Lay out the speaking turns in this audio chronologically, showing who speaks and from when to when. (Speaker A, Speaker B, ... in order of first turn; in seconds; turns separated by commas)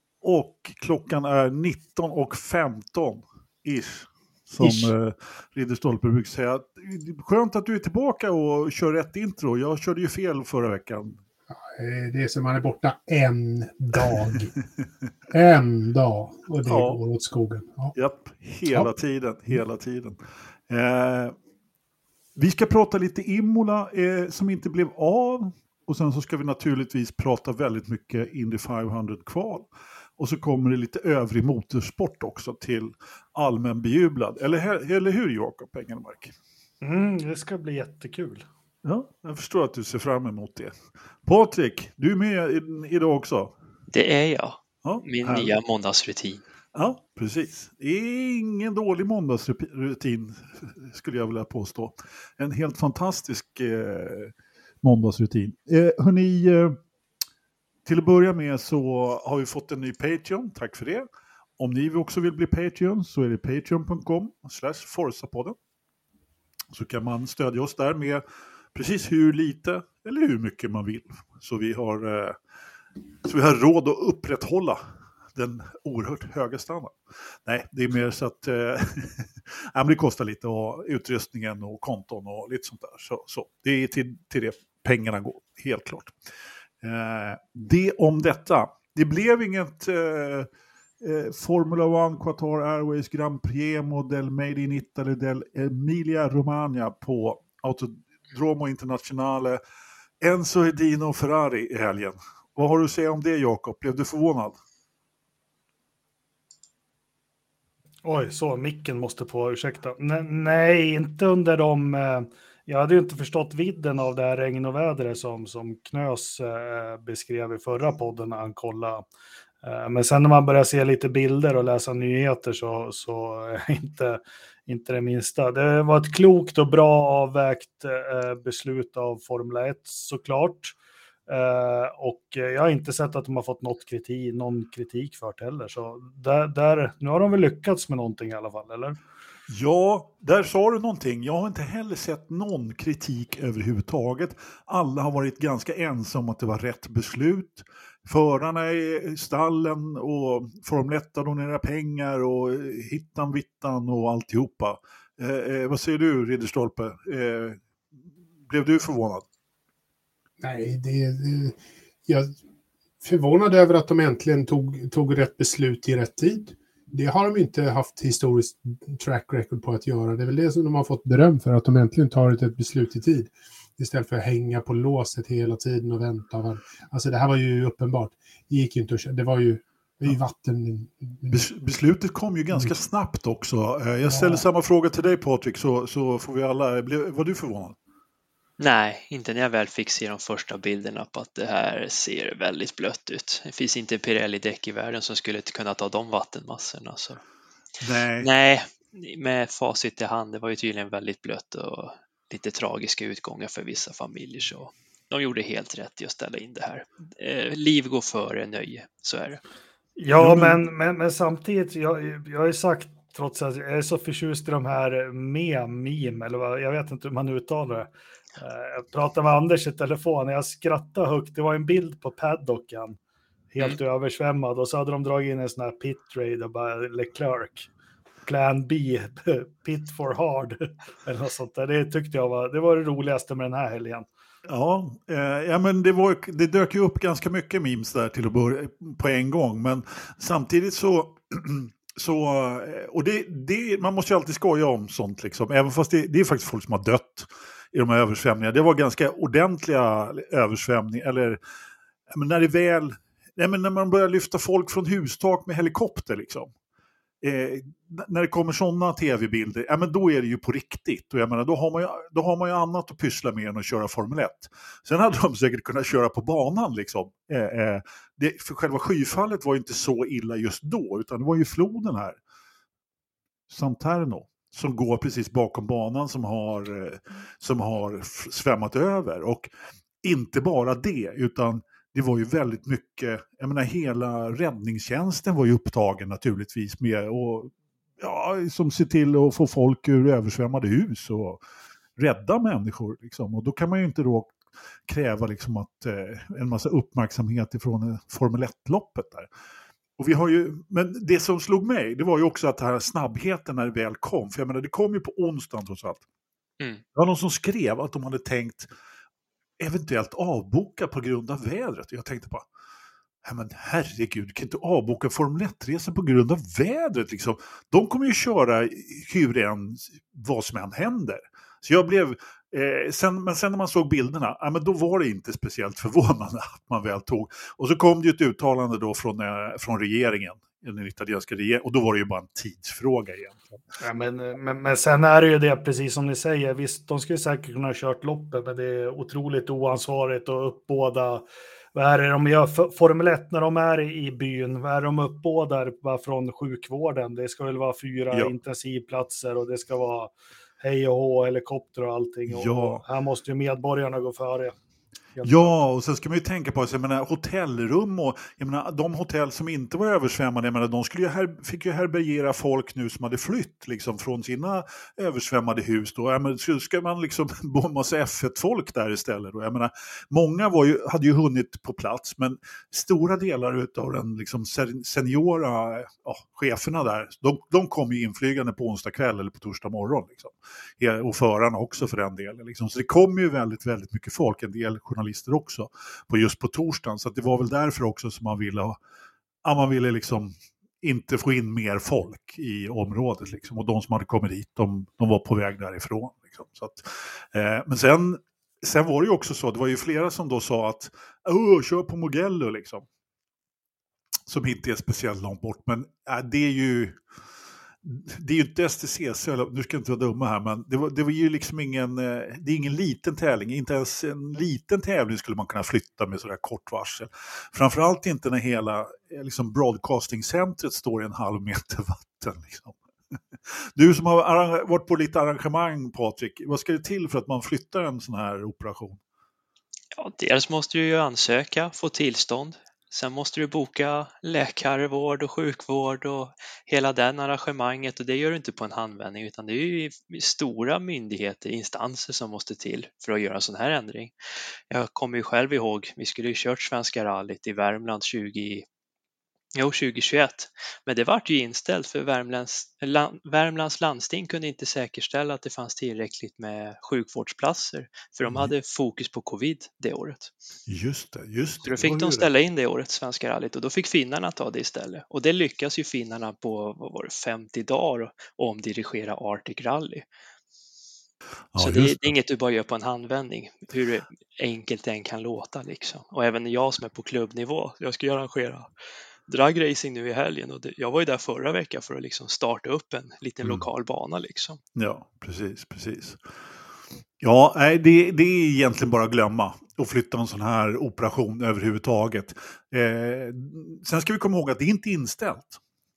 Speaker A: 0.2-11.2, Speaker B: 4.6-4.9, Speaker B: 11.5-14.5, Speaker B: 15.3-17.9, Speaker A: 16.7-17.0, Speaker A: 17.9-20.2, Speaker A: 20.7-21.4, Speaker A: 22.4-29.7, Speaker A: 30.2-36.3, Speaker C: 36.8-38.5, Speaker A: 38.8-40.7, Speaker A: 41.2-43.5, Speaker D: 43.9-46.4, Speaker A: 44.8-45.5, Speaker A: 46.7-56.8, Speaker A: 57.9-61.1, Speaker A: 61.6-65.6, Speaker A: 66.7-72.4, Speaker A: 73.2-74.8, Speaker A: 75.3-86.1, Speaker A: 86.8-90.5, Speaker A: 91.0-99.6, Speaker A: 100.2-104.6, Speaker C: 108.0-119.0, Speaker C: 119.6-130.8, Speaker C: 131.3-139.0, Speaker A: 139.5-157.6, Speaker A: 158.5-159.2, Speaker B: 160.4-162.4, Speaker B: 163.0-181.5, Speaker A: 181.3-187.8, Speaker B: 182.5-182.8, Speaker B: 184.0-184.4, Speaker D: 188.6-197.2, Speaker A: 197.8-198.3, Speaker D: 198.2-209.4, Speaker C: 210.0-223.0, Speaker A: 210.2-210.6, Speaker C: 223.5-227.7, Speaker C: 228.3-234.1, Speaker A: 234.5-251.4, Speaker A: 252.1-256.5, Speaker A: 257.2-272.2, Speaker A: 273.5-279.5, Speaker A: 280.0-291.4, Speaker A: 292.0-294.4, Speaker A: 294.9-299.3, Speaker A: 300.0-306.0, Speaker A: 306.9-308.7, Speaker A: 309.6-312.4, Speaker A: 313.2-333.5, Speaker C: 333.8-354.6, Speaker A: 352.3-352.8, Speaker C: 355.1-355.6, Speaker A: 355.2-388.8, Speaker A: 389.4-402.9, Speaker A: 404.3-407.0, Speaker A: 407.8-422.8, Speaker A: 423.8-429.0, Speaker D: 429.9-444.1, Speaker D: 444.7-448.6, Speaker D: 449.6-460.3, Speaker A: 458.3-458.5, Speaker A: 460.7-462.3, Speaker D: 461.6-470.1, Speaker A: 471.5-472.1, Speaker D: 471.6-478.7, Speaker D: 479.3-484.6, Speaker A: 484.8-486.2, Speaker A: 487.2-495.6